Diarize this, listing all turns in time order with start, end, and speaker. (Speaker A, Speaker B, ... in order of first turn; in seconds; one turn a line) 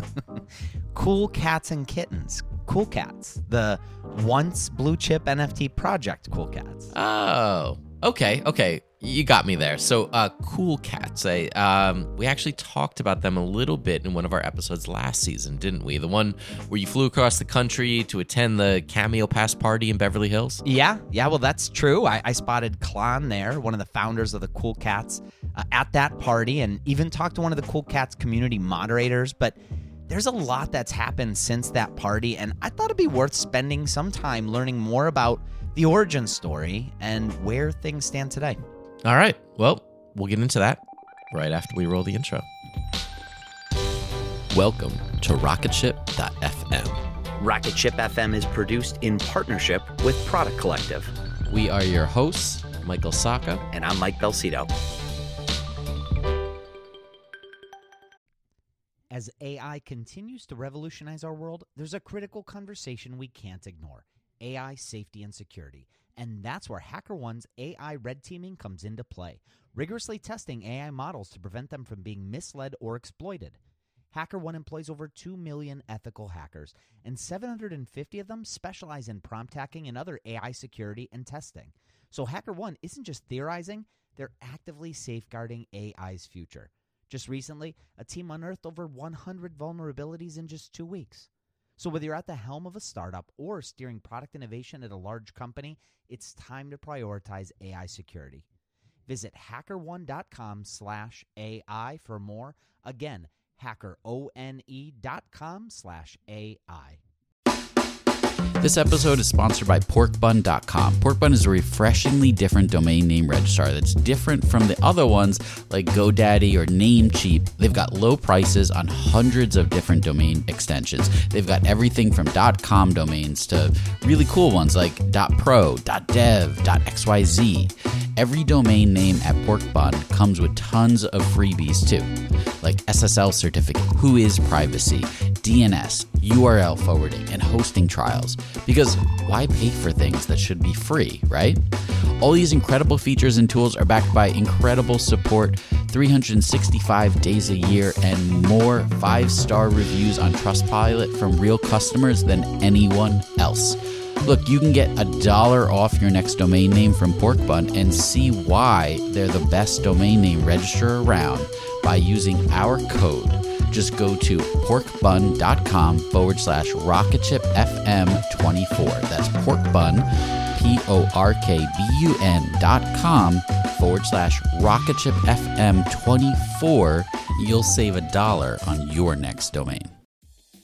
Speaker A: 0.9-6.9
Speaker B: 6.9-20.6
Speaker A: 20.6-29.6
Speaker A: 30.1-38.6
Speaker B: 39.0-40.8
Speaker B: 41.3-42.5
Speaker B: 44.5-47.0
Speaker A: 47.4-51.1
Speaker B: 51.5-53.6
Speaker A: 53.7-54.7
Speaker A: 59.1-73.6
Speaker A: 74.1-98.5
Speaker A: 99.1-107.0
Speaker C: 108.6-179.9